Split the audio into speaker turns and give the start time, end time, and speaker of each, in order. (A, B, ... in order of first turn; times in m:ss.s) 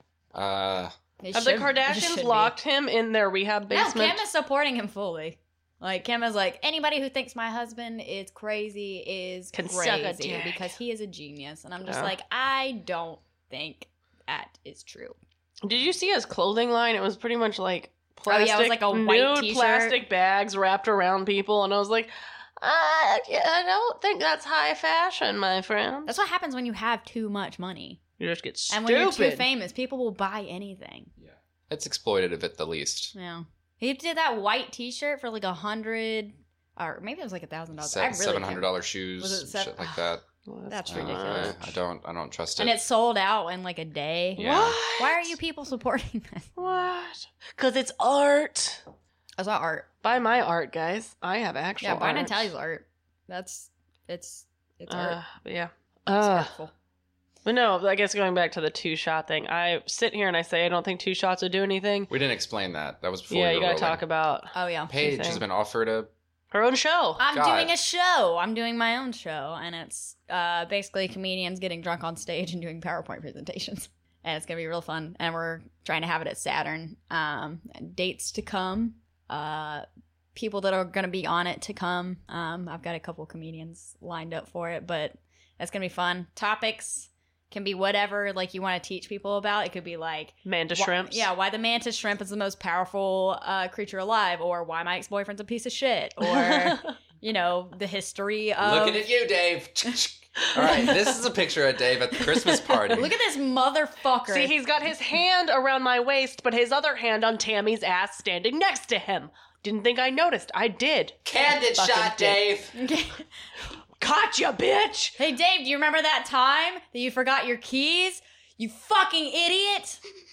0:00.3-0:00.9 A
0:01.2-0:02.6 B
0:01.3-0:04.2 C
0:03.7-0:15.2 B
0:09.5-0:10.7 C
0:11.9-0:12.1 C
0:15.6-0:26.1 C
0:18.3-0:20.0 B
0:26.1-0:28.0 B
0:28.2-0:29.5 C
0:28.7-0:31.1 B
0:31.2-0:33.2 A
0:33.1-0:40.0 B
0:37.8-0:40.2 A
0:40.5-0:41.6 C
0:40.7-0:41.8 B
0:40.9-0:42.8 A
0:42.6-0:46.5 B
0:44.4-0:44.8 A
0:44.4-0:45.3 C
0:46.6-0:48.8 C
0:49.4-0:49.9 B
0:50.0-0:52.5 C
0:51.8-0:55.2 B
0:54.9-0:56.5 C
0:56.2-0:56.7 B
0:57.4-1:02.1 C
1:02.1-1:04.0 A
1:03.3-1:05.4 C
1:04.5-1:05.0 B
1:04.9-1:06.1 A
1:06.5-1:07.2 C
1:07.2-1:39.1 B
1:07.3-1:07.7 A
1:30.4-1:31.3 C
1:36.2-1:36.9 C
1:38.6-1:43.1 A
1:40.6-1:41.0 C
1:42.3-1:42.8 C
1:42.9-1:44.6 B
1:44.3-1:51.2 C
1:51.2-1:52.7 A
1:51.8-1:52.5 C
1:52.8-1:53.2 B
1:54.0-1:55.2 C
1:55.2-2:00.0 B